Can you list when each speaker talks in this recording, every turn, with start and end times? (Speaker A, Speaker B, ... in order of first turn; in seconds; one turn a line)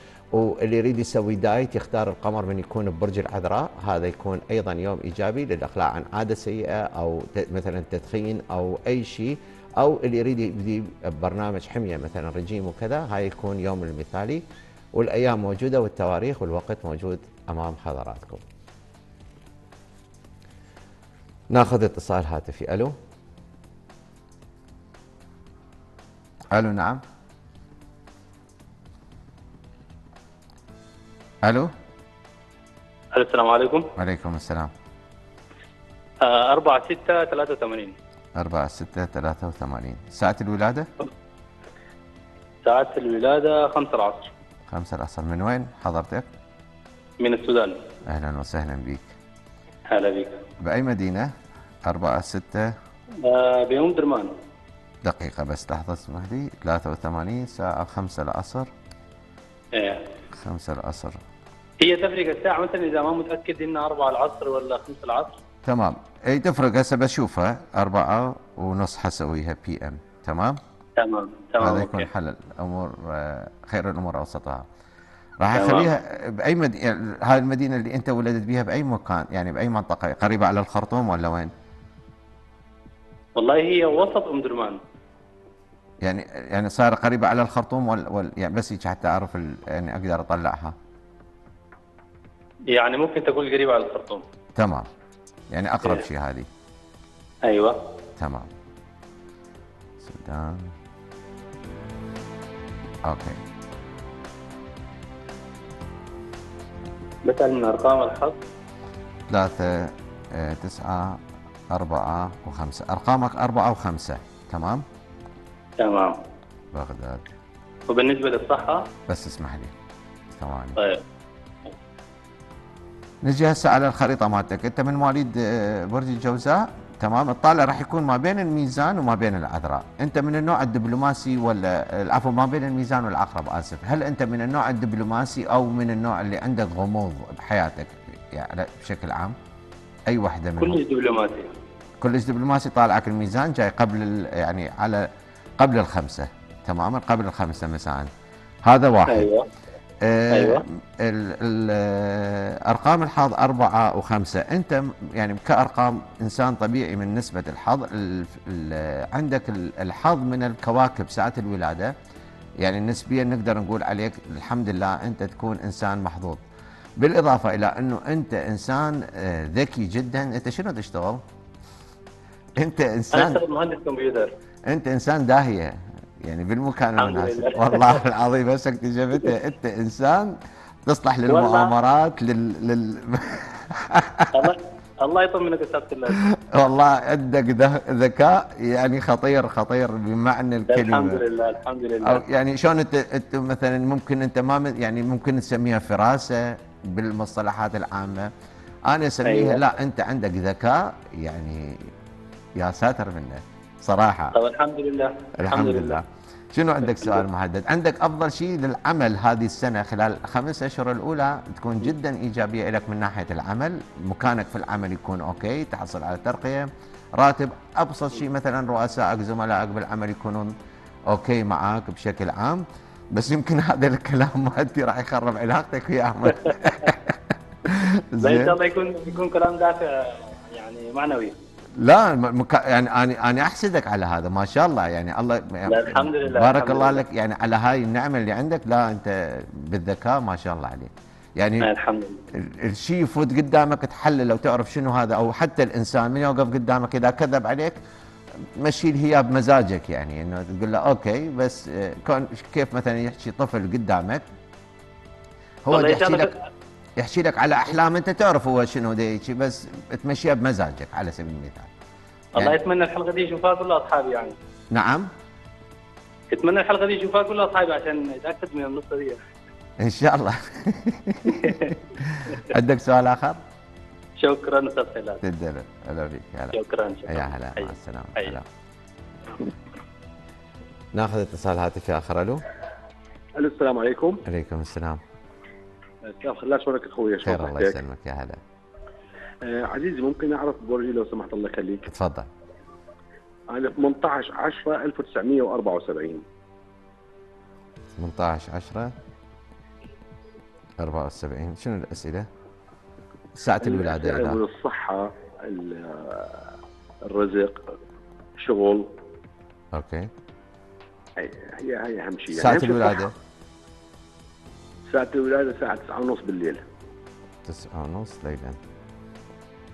Speaker A: 0.3-14.4
Speaker A: 14.9-18.4
Speaker A: 21.5-22.9
Speaker A: 26.5-27.0
Speaker A: 31.4-31.7
Speaker B: 33.1-33.9
Speaker A: 34.0-34.7
Speaker B: 36.2-38.0
Speaker A: 38.4-40.9
Speaker B: 42.6-44.3
Speaker A: 44.7-46.3
Speaker B: 47.2-47.8
Speaker A: 48.1-49.1
Speaker B: 49.9-50.4
Speaker A: 50.6-51.3
Speaker A: 51.9-52.7
Speaker B: 53.2-54.3
Speaker A: 55.0-58.7
Speaker B: 59.8-60.0
Speaker A: 60.3-61.2
Speaker B: 61.8-65.4
Speaker A: 65.7-70.6
Speaker B: 71.0-72.1
Speaker A: 71.6-74.7
Speaker A: 75.4-81.5
Speaker B: 75.5-75.9
Speaker B: 83.4-84.8
Speaker A: 86.0-90.8
Speaker B: 92.7-94.2
Speaker A: 94.6-94.9
Speaker A: 95.5-96.5
Speaker B: 97.5-97.8
Speaker A: 98.2-98.5
Speaker A: 100.0-100.8
Speaker A: 103.0-103.4
Speaker B: 107.2-108.4
Speaker A: 109.3-114.8
Speaker B: 115.8-116.2
Speaker A: 116.7-117.3
Speaker B: 117.9-118.9
Speaker A: 119.1-119.7
Speaker A: 120.3-120.8
Speaker B: 120.8-121.0
Speaker A: 123.2-139.4
Speaker A: 140.1-140.8
Speaker B: 140.6-141.5
Speaker A: 142.0-145.1
Speaker A: 145.6-148.1
Speaker A: 148.6-149.3
Speaker B: 149.1-149.5
Speaker A: 150.0-161.9
Speaker B: 150.3-150.7
Speaker A: 162.6-166.4
Speaker A: 167.0-171.2
Speaker A: 172.6-173.4
Speaker B: 173.1-174.3
Speaker A: 174.7-184.5
Speaker B: 177.0-178.0
Speaker B: 181.3-181.7
Speaker B: 184.3-186.2
Speaker A: 186.2-191.2
Speaker B: 190.7-192.2
Speaker A: 192.0-198.3
Speaker A: 198.9-201.9
Speaker B: 199.2-199.6
Speaker A: 202.6-204.4
Speaker B: 204.3-206.0
Speaker A: 205.4-220.5
Speaker B: 206.8-207.2
Speaker A: 221.1-228.6
Speaker B: 226.4-226.7
Speaker B: 228.2-231.3
Speaker A: 231.8-241.7
Speaker B: 235.7-237.0
Speaker B: 241.6-242.2
Speaker A: 242.3-247.8
Speaker A: 248.6-254.2
Speaker A: 255.7-256.3
Speaker B: 255.7-256.3
Speaker A: 257.0-261.7
Speaker B: 262.4-264.4
Speaker A: 264.7-265.1
Speaker B: 266.3-269.2
Speaker A: 269.8-273.4
Speaker B: 271.3-271.8
Speaker B: 274.2-275.2
Speaker A: 275.2-278.5
Speaker B: 276.5-278.4
Speaker A: 280.9-282.4
Speaker C: 283.4-284.2
Speaker A: 284.3-285.0
Speaker C: 286.1-287.8
Speaker A: 287.2-288.4
Speaker C: 289.4-291.9
Speaker A: 291.9-292.3
Speaker C: 293.5-296.2
Speaker A: 297.9-298.9
Speaker A: 300.8-302.3
Speaker A: 303.4-304.4
Speaker C: 303.6-306.5
Speaker C: 307.0-307.6
Speaker C: 308.4-308.9
Speaker A: 309.7-310.1
Speaker C: 311.2-313.1
Speaker A: 312.3-313.1
Speaker C: 314.9-316.6
Speaker A: 317.4-318.6